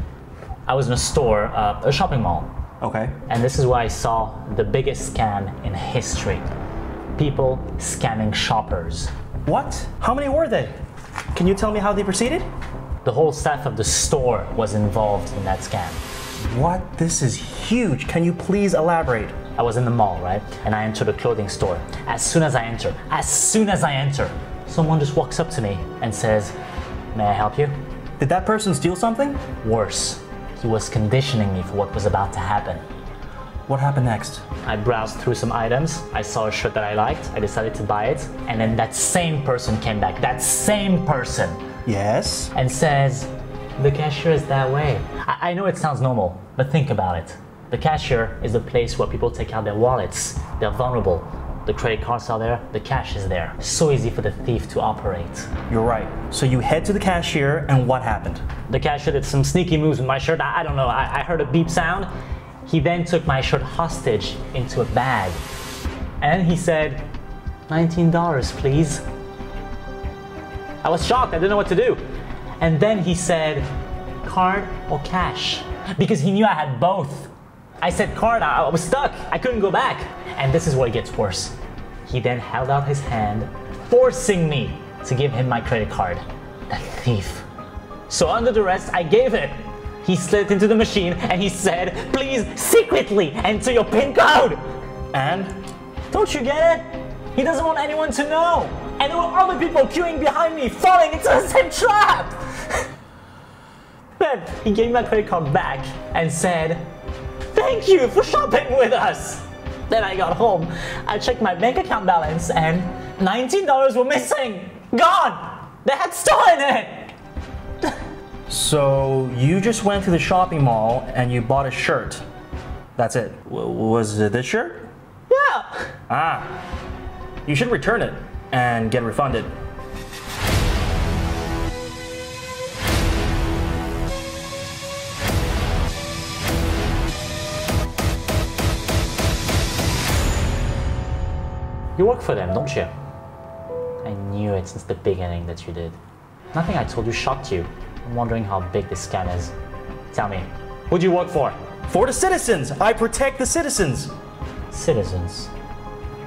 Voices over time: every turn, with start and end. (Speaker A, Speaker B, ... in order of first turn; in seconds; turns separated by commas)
Speaker A: 0.7-2.5, Speaker B: 2.8-3.1, Speaker A: 3.3-6.5, Speaker A: 7.2-9.1, Speaker B: 9.5-10.7, Speaker B: 11.3-12.5, Speaker A: 13.0-16.0, Speaker B: 16.4-19.4, Speaker A: 19.6-26.6, Speaker A: 27.1-27.7, Speaker B: 28.2-29.4, Speaker A: 29.6-32.8, Speaker B: 33.7-34.4, Speaker A: 34.6-41.6, Speaker B: 41.9-42.5, Speaker A: 42.5-55.5, Speaker B: 55.7-58.4, Speaker A: 58.7-62.1, Speaker A: 62.7-65.4, Speaker A: 66.2-67.1, Speaker A: 67.7-69.0, Speaker A: 70.8-72.0, Speaker A: 72.6-73.7, Speaker A: 74.2-81.5, Speaker A: 82.1-87.4, Speaker A: 88.1-94.6, Speaker B: 95.1-95.5, Speaker A: 96.1-102.9, Speaker A: 104.2-106.8, Speaker A: 107.5-117.1, Speaker B: 118.5-122.2, Speaker B: 123.0-124.9, Speaker A: 125.3-125.9, Speaker B: 126.1-126.6, Speaker B: 127.5-129.5, Speaker A: 142.0-142.9, Speaker A: 144.0-146.0, Speaker A: 146.5-149.5, Speaker A: 150.1-151.6, Speaker B: 151.9-154.1, Speaker A: 154.7-155.5